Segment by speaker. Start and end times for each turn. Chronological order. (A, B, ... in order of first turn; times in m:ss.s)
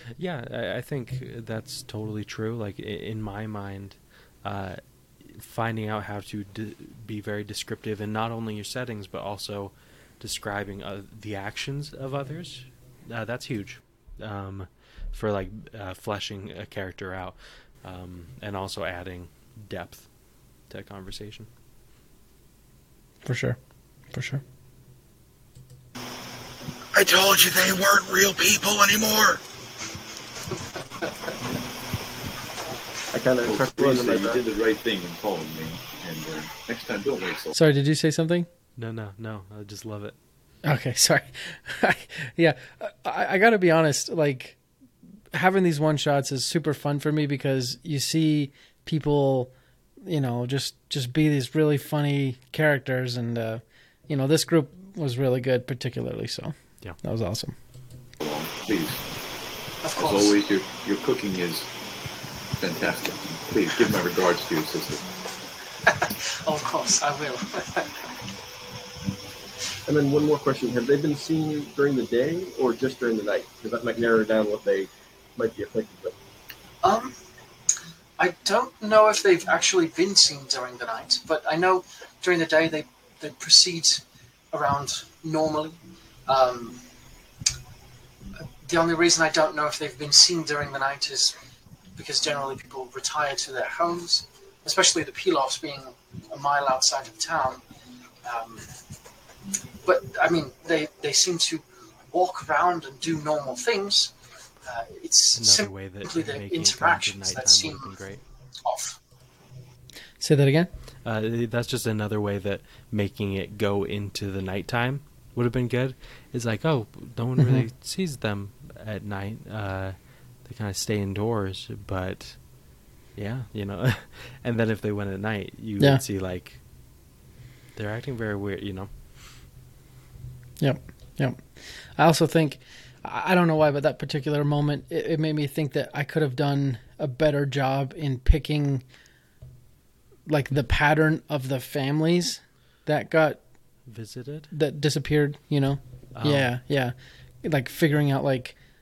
0:00.2-0:20.1 A
0:20.7-0:21.5 A
0:23.2-0:23.6 B
0:24.1-0:24.4 B
0:26.9-0:29.4 C
0:33.1-0:34.4 D
0:33.4-0:37.6 E
0:37.6-0:38.5 B
0:38.8-0:40.1 A
0:40.6-0:44.6 B
0:45.3-0:49.5 B
0:50.0-0:57.5 B
0:58.2-0:59.0 E
0:59.8-1:00.4 F
1:00.0-1:01.7 E
1:02.6-1:05.0 E
1:05.8-1:07.9 F
1:09.9-1:16.1 D
1:16.8-1:17.2 F
1:18.2-1:26.8 F
1:28.6-1:31.4 F
1:32.0-1:37.6 F
1:38.2-1:38.7 F
1:39.8-1:44.1 F
1:44.6-1:48.0 F
1:45.4-1:48.2 A
1:48.6-1:49.0 F
1:50.2-1:50.7 B
1:51.0-2:02.4 A
1:57.4-1:57.6 B
2:03.2-2:06.6 A
2:07.7-2:08.9 A
2:10.6-2:11.4 B
2:12.0-2:18.8 B
2:20.3-2:23.4 B
2:23.9-2:24.5 A
2:24.5-2:28.6 B
2:26.2-2:26.5 A